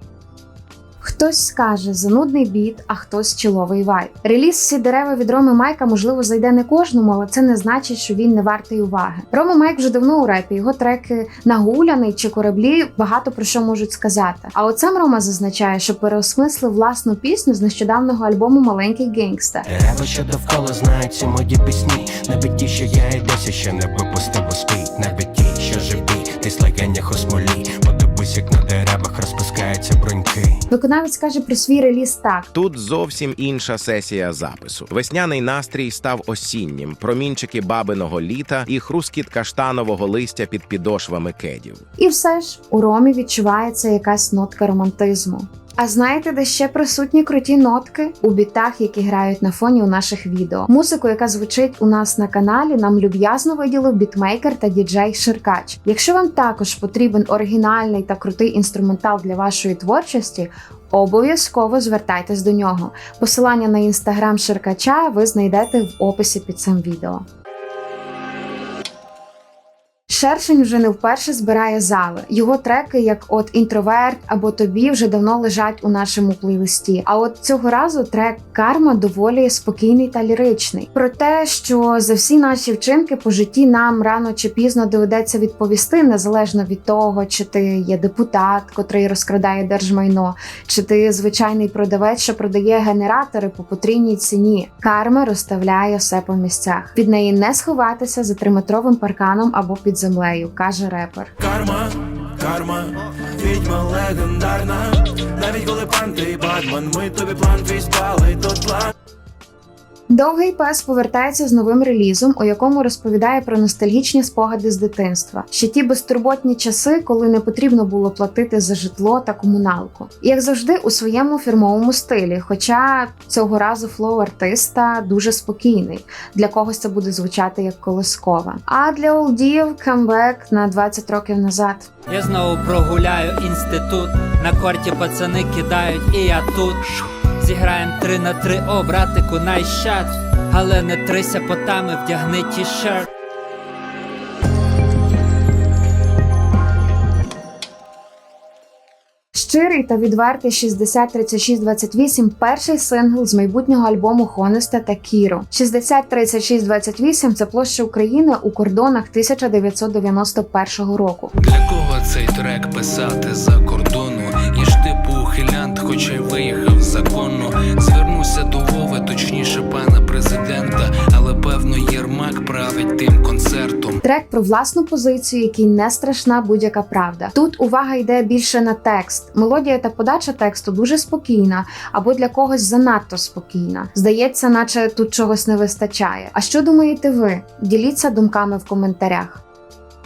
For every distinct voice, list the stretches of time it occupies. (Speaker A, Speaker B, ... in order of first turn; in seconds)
Speaker A: 1.0-19.6, 30.7-32.5, 42.0-67.2, 70.1-101.3, 110.1-131.9, 149.3-161.3, 174.0-189.4
Speaker B: 19.7-30.6
Speaker C: 32.5-41.8
Speaker D: 101.4-108.8
Speaker E: 132.1-143.1
Speaker F: 161.4-174.0